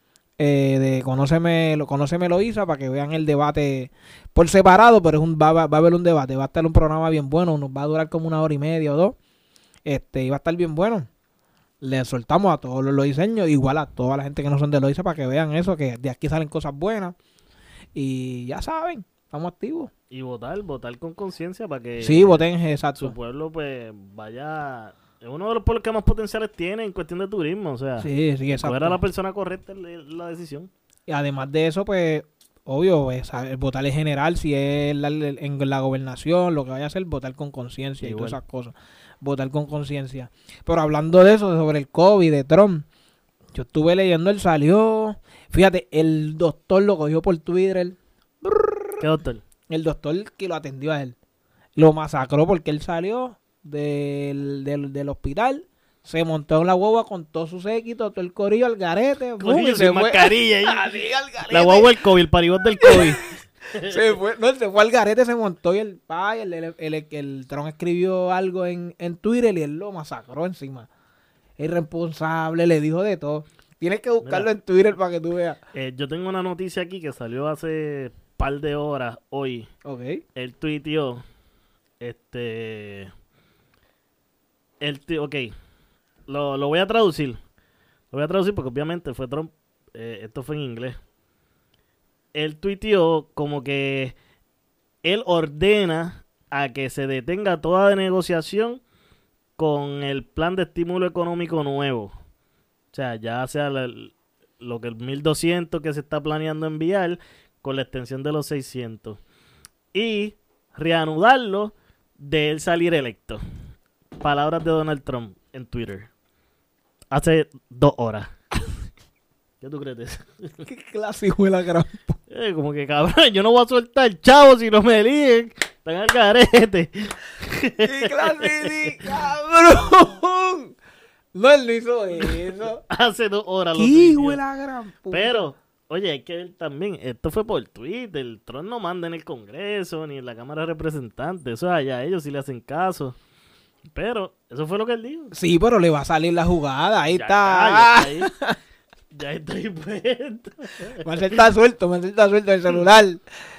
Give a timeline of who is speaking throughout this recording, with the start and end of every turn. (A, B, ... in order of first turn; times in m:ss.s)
0:00.4-0:09.2 A
0:09.8-0:11.1 A
0:11.8-0:17.1 A
0:17.9-0:19.9 A
0:20.1-0:22.4 B
0:22.0-0:23.1 A
0:23.0-0:30.7 B
0:28.0-0:29.0 A
0:31.1-0:42.8 A
0:38.0-0:38.4 B
0:43.5-0:49.0 A
0:49.0-0:49.4 B
0:49.7-0:51.2 A
0:51.8-1:01.9 A
0:59.4-1:00.9 B
1:01.5-1:04.0 B
1:02.8-1:03.1 A
1:03.8-1:10.9 A
1:11.6-1:15.6 A
1:14.2-1:14.5 B
1:15.7-1:19.7 B
1:19.8-1:20.2 A
1:20.3-1:21.2 B
1:22.0-1:23.1 B
1:24.8-1:25.5 B
1:26.3-1:27.4 B
1:28.1-1:31.0 B
1:32.3-1:34.1 B
1:35.0-1:38.8 B
1:39.6-1:42.1 B
1:42.9-1:49.2 B
1:49.9-1:53.4 B
1:54.2-1:56.1 B
1:57.1-1:58.3 B
1:59.6-2:00.7 B
2:00.7-2:02.2 A
2:02.3-2:09.0 B
2:07.8-2:10.7 A
2:11.3-2:12.8 A
2:12.9-2:14.4 B
2:13.8-2:15.4 A
2:15.1-2:23.2 B
2:23.9-2:25.3 B
2:25.3-2:28.6 A
2:27.1-2:28.3 B
2:29.1-2:31.4 B
2:31.0-2:33.2 A